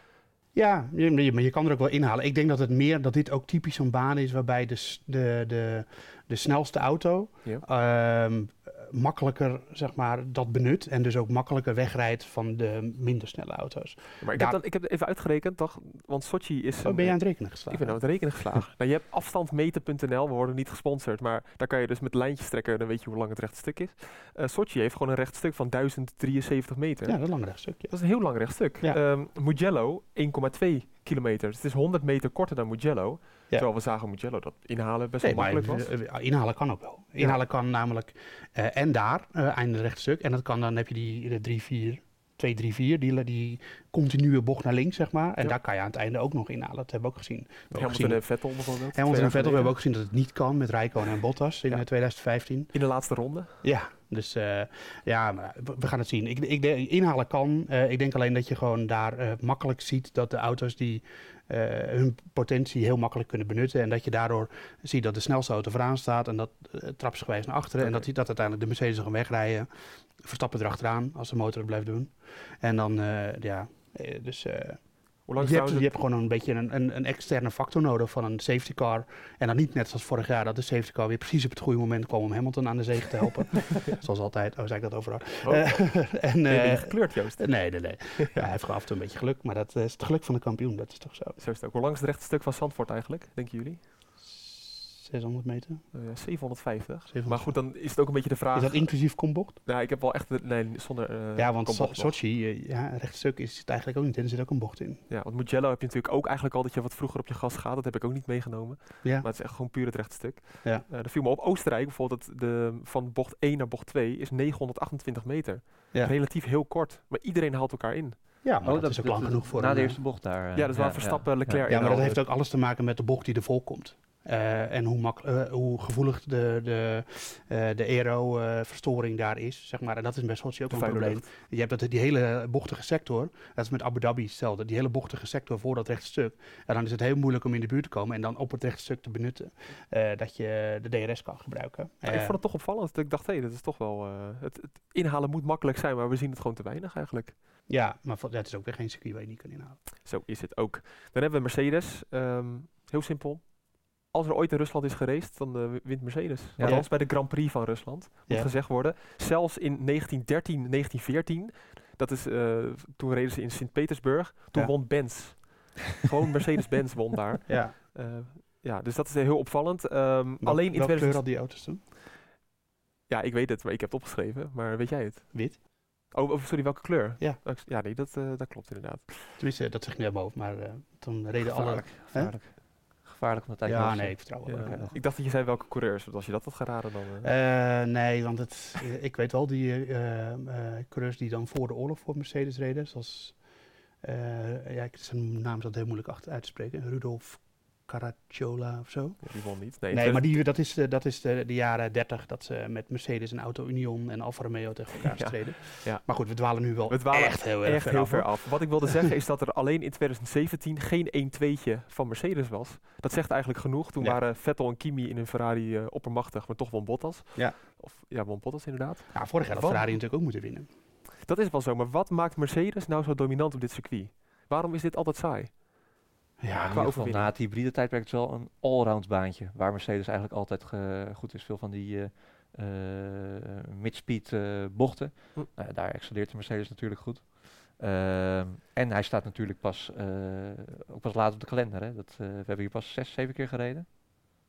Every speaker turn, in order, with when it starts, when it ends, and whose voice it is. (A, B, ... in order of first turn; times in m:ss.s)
0:00.5-0:14.6 A
0:14.2-0:27.2 B
0:16.8-0:18.0 A
0:27.1-0:28.0 A
0:27.9-0:35.9 B
0:35.2-0:52.7 A
0:47.7-0:49.7 B
0:52.7-0:53.5 B
0:53.6-1:09.7 A
1:10.2-1:14.8 A
1:15.3-1:15.9 B
1:15.4-1:31.4 A
1:25.4-1:28.5 B
1:31.4-1:33.8 B
1:34.2-1:35.8 A
1:35.9-1:38.9 B
1:37.1-1:37.6 A
1:38.5-1:39.6 A
1:39.7-1:42.1 B
1:41.4-1:45.0 A
1:45.1-1:58.2 B
1:58.4-2:00.0 A
1:58.6-2:01.6 C
2:00.6-2:02.2 B
2:01.7-2:22.4 A
2:10.7-2:11.3 B
2:22.1-2:27.4 B
2:27.7-2:29.8 A
2:30.0-2:51.2 B
2:36.6-2:36.9 A
2:47.5-2:47.8 A
2:50.4-2:51.8 A
2:53.1-2:55.6 B
2:55.3-2:55.6 A
2:56.1-2:59.1 B
2:59.4-3:02.3 A
3:01.4-3:04.9 C
3:03.6-3:04.9 A
3:04.5-3:07.3 B
3:07.2-3:13.4 A
3:14.0-3:19.3 A
3:19.2-3:20.4 B
3:19.9-3:28.5 A
3:25.1-3:26.3 B
3:26.9-3:40.0 B
3:39.1-3:40.7 A
3:41.2-3:45.6 B
3:46.4-3:46.9 A
3:46.6-4:04.0 C
3:46.7-3:47.3 B